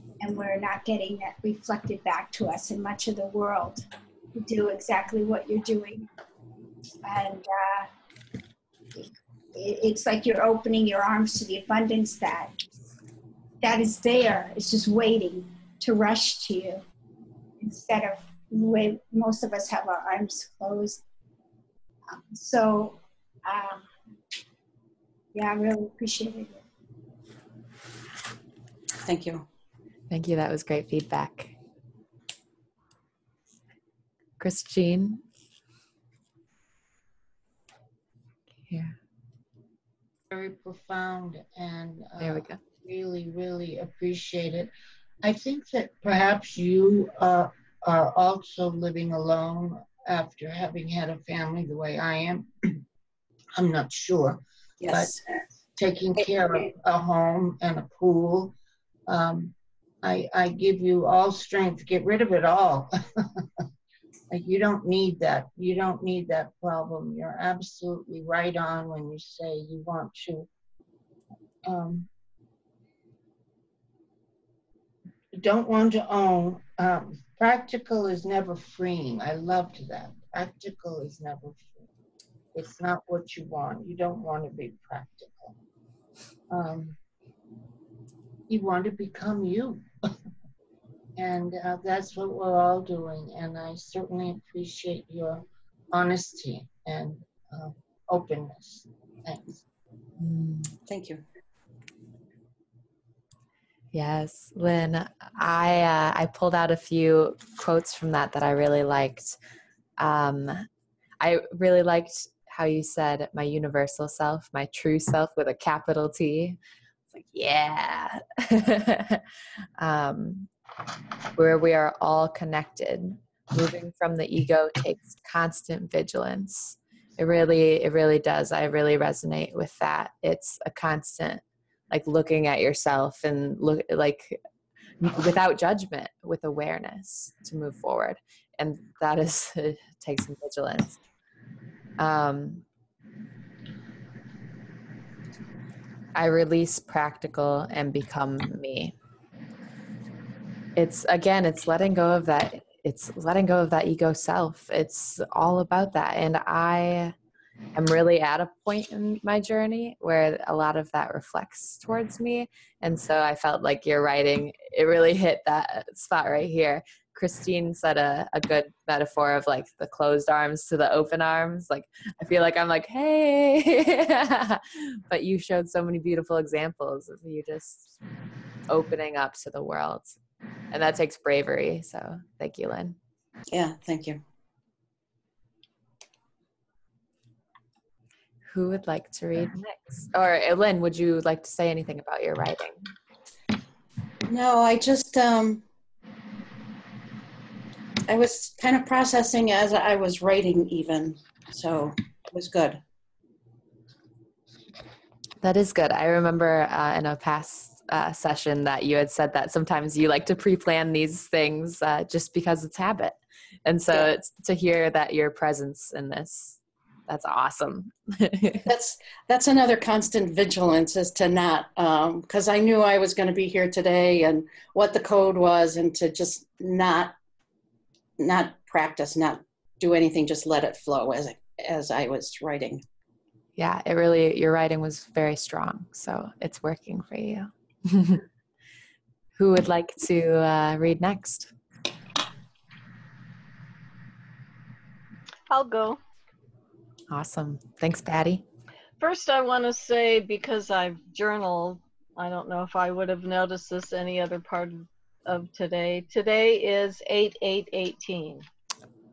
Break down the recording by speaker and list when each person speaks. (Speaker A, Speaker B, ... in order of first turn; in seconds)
Speaker A: 0.2-6.1, 7.0-7.9, 9.5-12.5, 13.6-16.8, 17.6-21.0, 22.1-23.9, 25.3-26.6
Speaker B: 29.0-29.4, 54.8-55.2, 100.9-101.2, 183.5-184.2, 194.3-195.6, 198.1-202.8, 218.6-227.1, 228.2-232.8
Speaker C: 30.1-31.5, 34.4-35.2, 38.7-38.9, 42.2-42.6, 100.2-100.7, 103.9-109.4, 110.0-110.7, 111.2-116.6, 117.1-119.2, 119.8-120.5, 121.3-134.4, 135.0-141.0, 142.0-142.6, 146.1-148.9, 150.8-157.1, 157.7-177.9, 178.7-180.2, 180.7-183.0, 188.5-192.9, 205.4-218.7, 233.6-238.2, 239.3-241.5, 247.1-248.4
Speaker D: 40.3-44.7, 45.2-52.8, 53.6-55.2, 55.8-58.5, 59.1-63.5, 64.3-70.5, 71.7-72.1, 75.3-81.7, 82.5-85.5, 86.5-87.0, 88.5-89.9, 91.2-99.6
Speaker E: 245.5-246.0, 249.0-258.4